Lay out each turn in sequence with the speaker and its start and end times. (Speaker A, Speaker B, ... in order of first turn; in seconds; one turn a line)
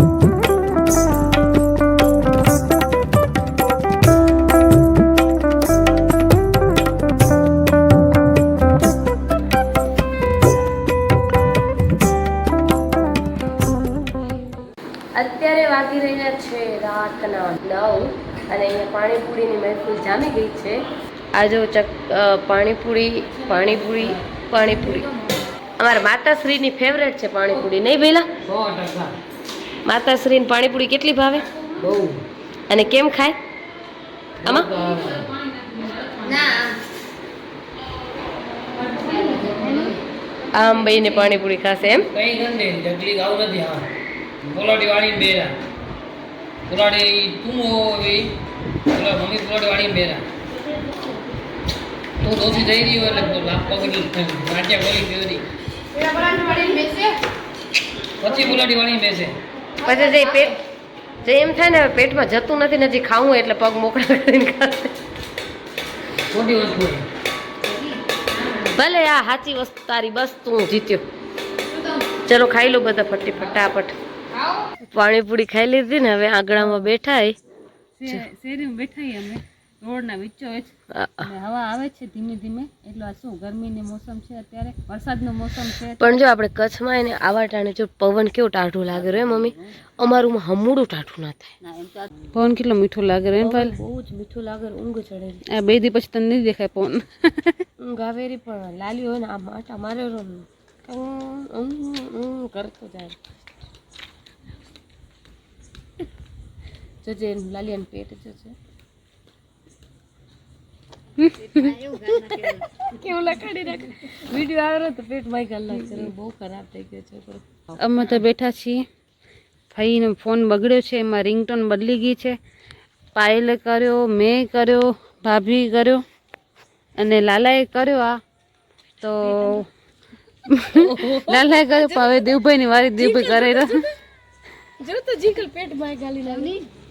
Speaker A: 15.1-25.1
Speaker A: 25.8-28.3
Speaker B: 28.5-29.2
Speaker A: 29.8-31.5
Speaker B: 31.8-32.2
Speaker A: 32.7-33.3
Speaker A: 34.4-34.7
Speaker B: 34.5-35.2
Speaker C: 35.0-36.7
Speaker D: 38.8-39.9
Speaker A: 40.5-42.1
Speaker B: 42.1-43.9
Speaker B: 44.5-45.5
Speaker B: 46.7-48.3
Speaker B: 48.9-50.2
Speaker B: 52.2-55.5
Speaker D: 56.0-57.2
Speaker B: 58.2-59.3
Speaker A: 59.8-60.6
Speaker A: 61.2-64.9
Speaker B: 66.3-67.0
Speaker A: 68.5-71.0
Speaker A: 72.2-73.9
Speaker A: 74.9-77.3
Speaker C: 78.0-80.7
Speaker A: 80.9-81.3
Speaker C: 81.2-86.2
Speaker A: 86.0-91.5
Speaker C: 92.3-93.7
Speaker A: 93.4-95.4
Speaker C: 95.5-97.6
Speaker A: 97.8-103.2
Speaker A: 107.0-108.5
Speaker C: 111.2-111.5
Speaker A: 111.7-117.6
Speaker C: 117.8-118.8
Speaker C: 119.7-122.4
Speaker C: 123.1-126.0
Speaker C: 127.0-128.2
Speaker C: 129.0-129.7
Speaker C: 130.5-133.8
Speaker A: 130.7-132.3
Speaker A: 133.0-133.9
Speaker A: 134.8-136.6